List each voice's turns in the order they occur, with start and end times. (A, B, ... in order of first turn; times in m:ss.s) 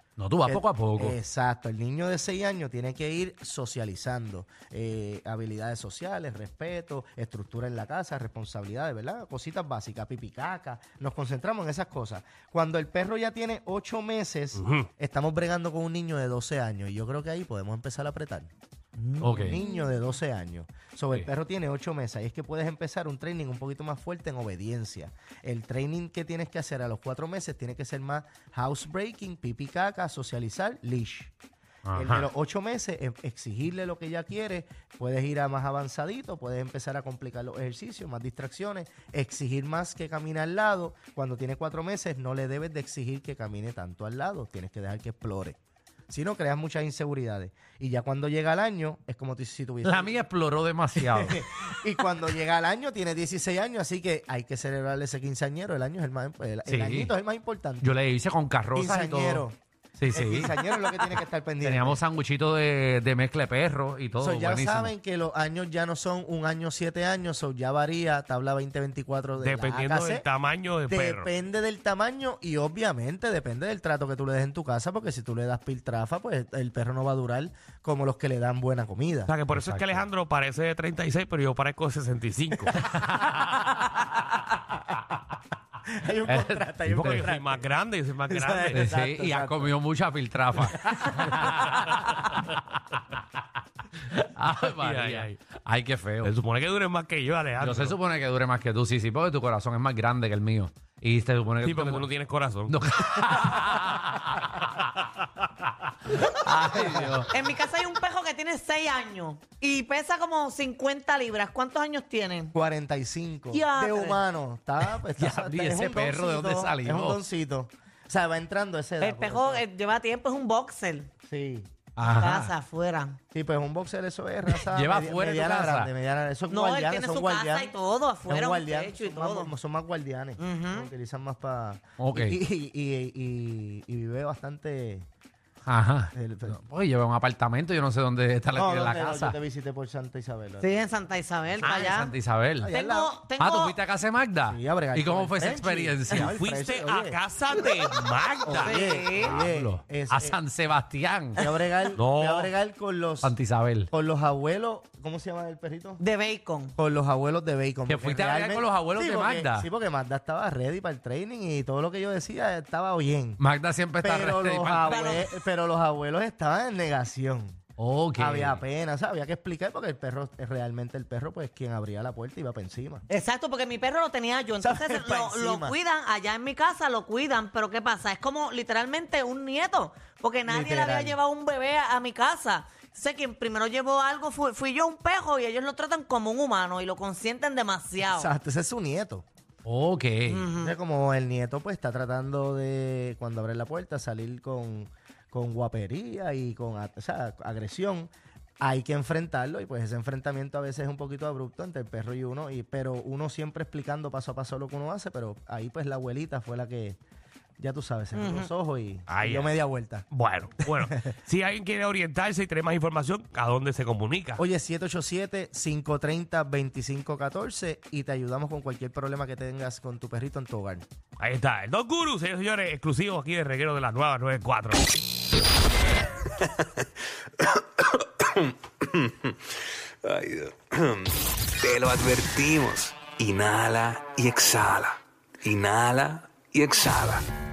0:00.2-0:01.2 A
0:00.4-0:18.5 B
0:14.6-0:14.9 C
0:19.0-0:20.0 D
0:19.2-0:19.6 A
0:19.4-0:31.3 B
0:31.8-0:32.3 A
0:32.0-0:45.6 B
0:46.1-0:50.1 B
0:49.8-0:51.7 A
0:51.1-0:57.9 B
0:56.7-0:57.1 A
0:57.8-0:59.4 A
0:58.7-0:59.6 B
1:00.0-1:04.9 A
1:00.1-1:02.0 B
1:04.2-1:10.2 B
1:09.4-1:11.3 C
1:10.9-1:19.3 B
1:19.3-1:22.9 C
1:19.5-1:20.0 A
1:22.6-1:23.3 B
1:22.8-1:23.6 A
1:25.9-1:27.7 B
1:26.3-1:27.2 A
1:26.9-1:28.8 C
1:28.3-1:29.7 B
1:28.7-1:32.7 A
1:30.8-1:31.4 B
1:34.1-1:36.3 A
1:34.6-1:35.4 C
1:36.2-1:38.0 C
1:37.6-1:42.0 A
1:41.6-1:42.8 C
1:42.6-1:44.9 A
1:46.2-1:47.3 A
1:47.3-1:52.5 D
1:52.5-1:59.6 B
1:53.5-1:54.2 D
1:54.9-1:57.2 A
1:59.0-2:01.1 D
2:01.2-2:01.7 B
2:02.0-2:02.5 A
2:02.1-2:03.2 D
2:03.3-2:07.7 B
2:04.5-2:05.9 A
2:06.5-2:09.5 D
2:08.3-2:15.0 B
2:10.4-2:10.9 D
2:12.0-2:12.4 A
2:15.7-2:19.4 A
2:16.1-2:16.6 B
2:18.5-2:20.7 B
2:20.6-2:22.1 D
2:21.6-2:22.7 A
2:22.6-2:23.1 B
2:22.7-2:23.8 D
2:23.4-2:26.3 A
2:24.5-2:27.2 B
2:26.1-2:29.3 C
2:28.5-2:30.4 B
2:28.5-2:29.4 D
2:29.3-2:31.4 A
2:31.4-2:33.3 B
2:31.9-2:32.5 C
2:33.2-2:33.9 A
2:33.9-2:36.0 B
2:36.0-2:36.8 D
2:36.8-2:43.4 B
2:37.9-2:39.7 A
2:43.4-2:45.0 A
2:44.0-2:47.6 B
2:44.9-2:45.3 D
2:47.8-2:48.6 A
2:48.2-2:53.0 B
2:53.1-3:08.3 D
2:54.6-2:55.7 B
3:00.5-3:01.2 B
3:08.0-3:09.2 B
3:09.6-3:10.4 A
3:10.3-3:10.7 D
3:10.6-3:18.1 B
3:18.6-3:27.0 B
3:27.6-3:30.1 B
3:28.1-3:28.5 D
3:29.1-3:29.6 C
3:30.1-3:34.4 C
3:34.4-3:40.8 B
3:41.2-3:44.9 C
3:47.5-3:49.4 E
3:50.0-3:57.2 E